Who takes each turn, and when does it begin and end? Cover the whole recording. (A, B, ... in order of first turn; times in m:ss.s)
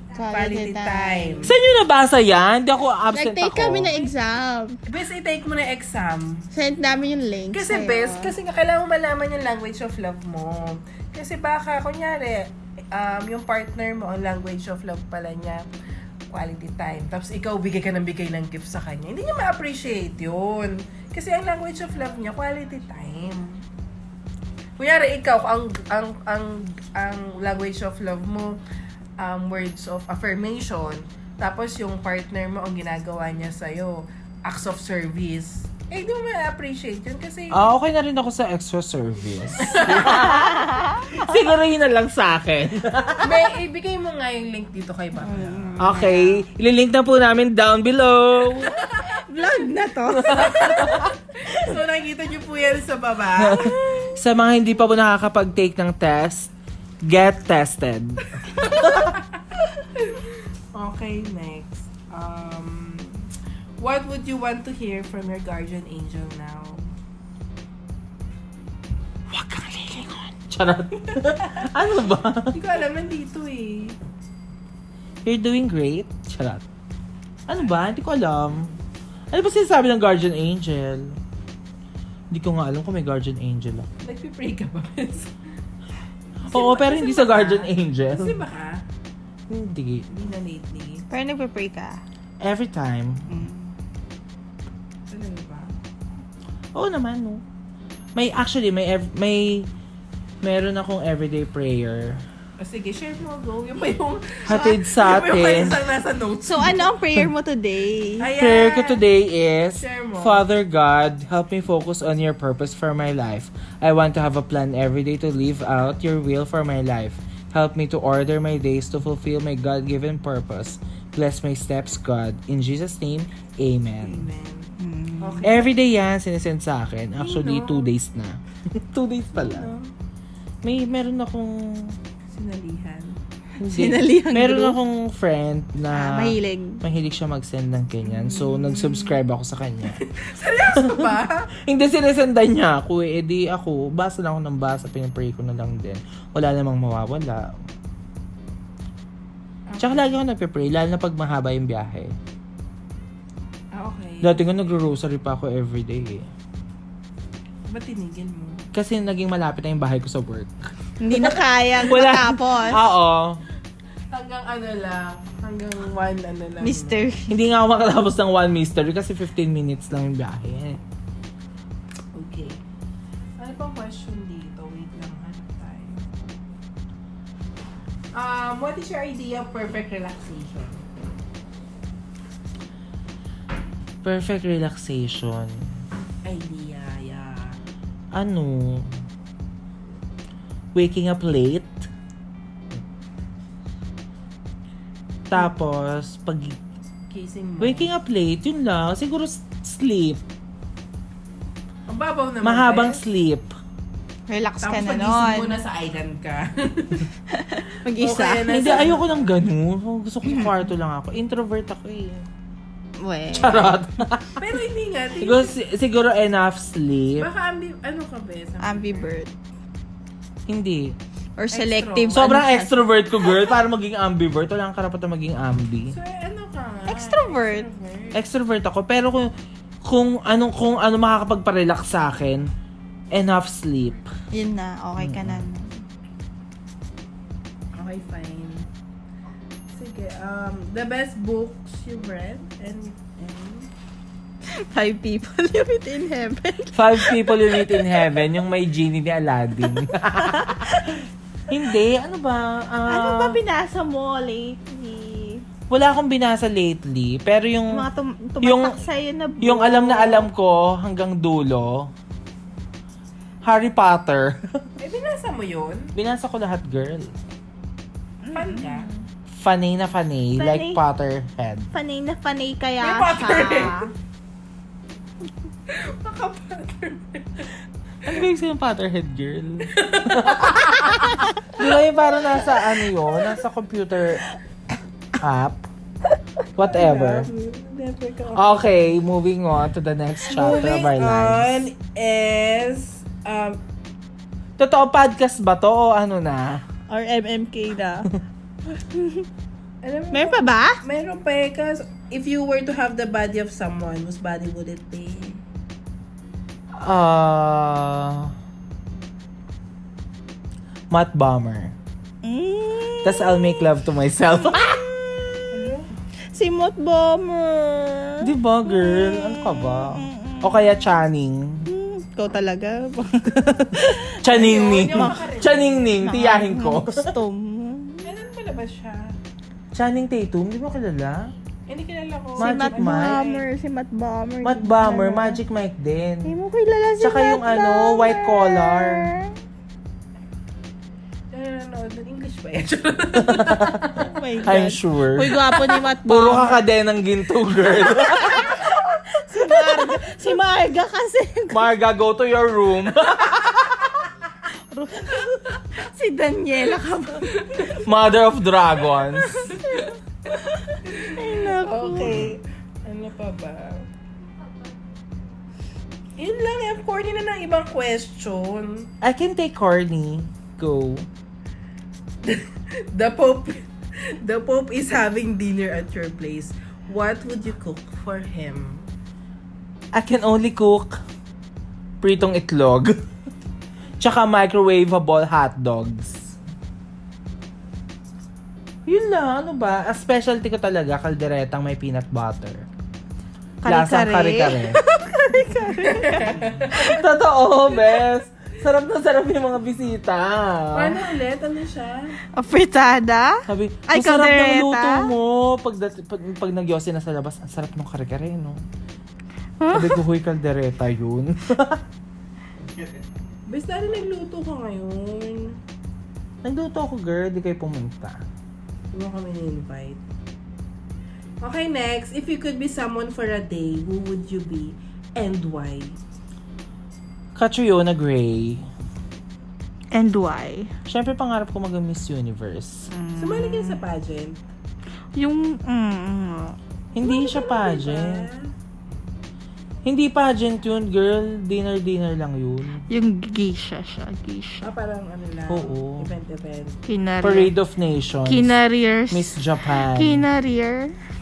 0:00.1-0:01.5 A
0:00.3-0:01.5 B
0:01.4-0:04.1 C
0:03.1-0:04.8 A
0:04.8-0:06.5 B
0:06.5-0:08.3 A
0:07.5-0:15.6 B
0:16.3-0:23.6 B
0:24.8-0:28.6 B
0:29.2-0:37.7 B
0:37.5-0:43.4 C
0:39.6-0:40.3 B
0:40.0-0:41.3 A
0:43.2-0:46.1 B
0:45.2-0:46.4 A
0:45.8-0:48.7 C
0:48.7-0:49.1 B
0:49.0-0:50.9 A
0:50.2-0:51.1 C
0:50.2-0:54.1 B
0:53.4-0:56.5 C
0:57.0-0:59.1 C
0:59.9-1:06.9 B
1:09.3-1:12.6 C
1:11.1-1:11.7 B
1:12.5-1:14.0 B
1:15.2-1:16.6 C
1:17.5-1:18.8 C
1:19.3-1:21.2 C
1:22.3-1:23.9 C
1:24.0-1:25.3 B
1:26.5-1:28.4 C
1:26.5-1:28.8 B
1:29.5-1:30.1 C
1:30.1-1:31.0 B
1:31.1-1:32.0 A
1:32.4-1:33.4 C
1:33.3-1:33.7 A
1:35.1-1:35.8 B
1:36.7-1:37.4 C
1:38.1-1:39.7 C
1:40.4-1:42.2 C
1:42.6-1:46.9 B
1:44.4-1:45.8 C
1:46.4-1:48.3 A
1:48.2-1:49.0 B
1:48.3-2:04.3 C
1:49.8-1:50.4 B
2:04.0-2:05.7 B
2:04.8-2:05.5 A
2:05.4-2:09.7 C
2:07.2-2:07.9 B
2:09.3-2:09.9 B
2:10.6-2:12.0 C
2:12.3-2:13.2 B
2:13.6-2:14.8 A
2:13.6-2:20.0 C
2:15.9-2:16.8 A
2:18.1-2:19.2 A
2:19.9-2:21.5 B
2:20.7-2:27.7 C
2:29.7-2:30.2 B
2:29.8-2:32.2 C
2:33.7-2:34.4 B
2:34.2-2:36.3 C
2:37.7-2:38.7 B
2:38.7-2:43.4 C
2:41.0-2:42.9 A
2:44.1-2:47.1 B
2:46.6-2:47.3 A
2:47.3-2:50.8 C
2:52.1-2:52.6 B
2:53.4-2:56.3 B
2:58.1-3:00.8 B
3:04.0-3:05.7 C
3:06.2-3:07.6 B
3:08.1-3:08.9 C
3:10.7-3:11.9 C
3:15.3-3:16.6 C
3:17.1-3:17.9 B
3:17.6-3:20.2 C
3:21.9-3:23.0 B
3:22.4-3:23.5 C
3:24.3-3:25.6 A
3:24.6-3:27.1 B
3:27.3-3:28.8 A
3:28.0-3:29.3 B
3:28.5-3:32.2 C
3:33.0-3:33.8 A
3:33.4-3:34.4 C
3:34.4-3:35.5 B
3:35.2-3:37.3 C
3:37.2-3:39.1 B
3:38.6-3:39.3 A
3:40.5-3:40.9 C
3:41.4-3:42.8 A
3:41.5-3:42.4 B
3:42.1-3:45.9 C
3:45.9-3:48.2 B
3:46.9-3:47.7 A
3:48.1-3:49.3 C
3:49.8-3:52.5 C
3:53.1-3:54.1 C
3:54.3-3:55.8 A
3:55.0-3:55.4 C
3:57.7-3:58.7 B
3:59.7-4:03.7 B
4:04.5-4:08.0 A
4:06.7-4:11.0 C
4:09.7-4:11.0 A
4:11.5-4:13.4 C
4:12.9-4:15.4 A
4:15.7-4:17.8 C
4:17.7-4:20.3 A
4:18.4-4:18.8 C
4:19.4-4:21.9 C
4:23.4-4:24.4 C
4:24.8-4:25.9 B
4:25.9-4:27.2 C
4:28.2-4:29.0 A
4:28.3-4:28.9 B
4:29.3-4:31.7 C
4:30.4-4:30.8 A
4:31.7-4:33.9 A
4:32.8-4:33.9 B
4:35.7-4:37.5 B
4:38.0-4:44.2 C
4:39.7-4:41.2 B
4:42.2-4:42.6 B
4:45.2-4:45.6 C
4:46.6-4:47.3 C
4:46.6-4:48.6 B
4:48.3-4:51.6 C
4:50.3-4:53.6 B
4:54.6-4:56.6 C
4:56.9-4:58.1 A
4:58.7-4:59.2 A
4:59.8-5:05.4 B
5:00.1-5:00.8 A
5:06.8-5:08.3 C
5:10.9-5:11.7 C
5:12.2-5:13.7 A
5:13.0-5:14.8 C
5:14.4-5:15.5 A
5:15.5-5:15.9 B
5:16.3-5:21.0 A
5:18.2-5:21.7 C
5:21.6-5:24.2 A
5:23.3-5:27.1 C
5:24.2-5:25.9 B
5:24.9-5:25.2 A
5:26.0-5:28.1 A
5:28.0-5:29.2 B
5:29.7-5:31.3 C
5:31.7-5:33.4 B
5:32.4-5:33.2 C
5:32.4-5:35.4 A
5:34.4-5:36.3 C
5:36.2-5:39.3 A
5:37.0-5:39.1 C
5:41.3-5:44.1 B
5:43.2-5:43.9 C
5:44.0-5:46.6 A
5:44.4-5:48.6 C
5:47.8-5:51.6 A
5:49.5-5:49.8 C
5:51.5-5:54.0 C
5:54.9-5:57.7 A
5:57.3-5:57.8 B
5:57.8-5:59.5 C
5:59.5-6:03.9 B
6:00.4-6:02.2 A
6:02.0-6:02.3 C
6:06.2-6:08.9 B
6:09.0-6:11.1 C
6:12.2-6:18.9 B
6:19.9-6:21.0 C
6:22.0-6:23.0 C
6:24.0-6:26.3 C
6:28.9-6:32.6 C
6:33.6-6:36.3 A
6:33.6-6:34.8 C
6:35.8-6:37.0 B
6:36.7-6:41.0 C
6:40.7-6:42.2 B
6:42.3-6:45.1 A
6:43.5-6:48.6 C
6:49.6-6:50.0 A
6:49.7-6:51.8 C
6:53.5-6:55.6 B
6:56.4-6:58.2 C
6:58.9-7:00.0 B
7:01.4-7:06.0 B
7:07.3-7:08.7 C
7:09.9-7:10.7 A
7:10.8-7:12.9 C
7:12.9-7:13.8 A
7:13.2-7:14.4 B
7:15.2-7:16.6 A
7:16.9-7:18.2 C
7:17.0-7:18.5 B
7:19.8-7:22.8 C
7:22.9-7:24.7 A
7:24.6-7:26.8 B
7:25.5-7:26.1 C
7:26.9-7:27.5 A
7:27.2-7:28.6 C
7:28.2-7:30.9 A
7:29.1-7:30.2 C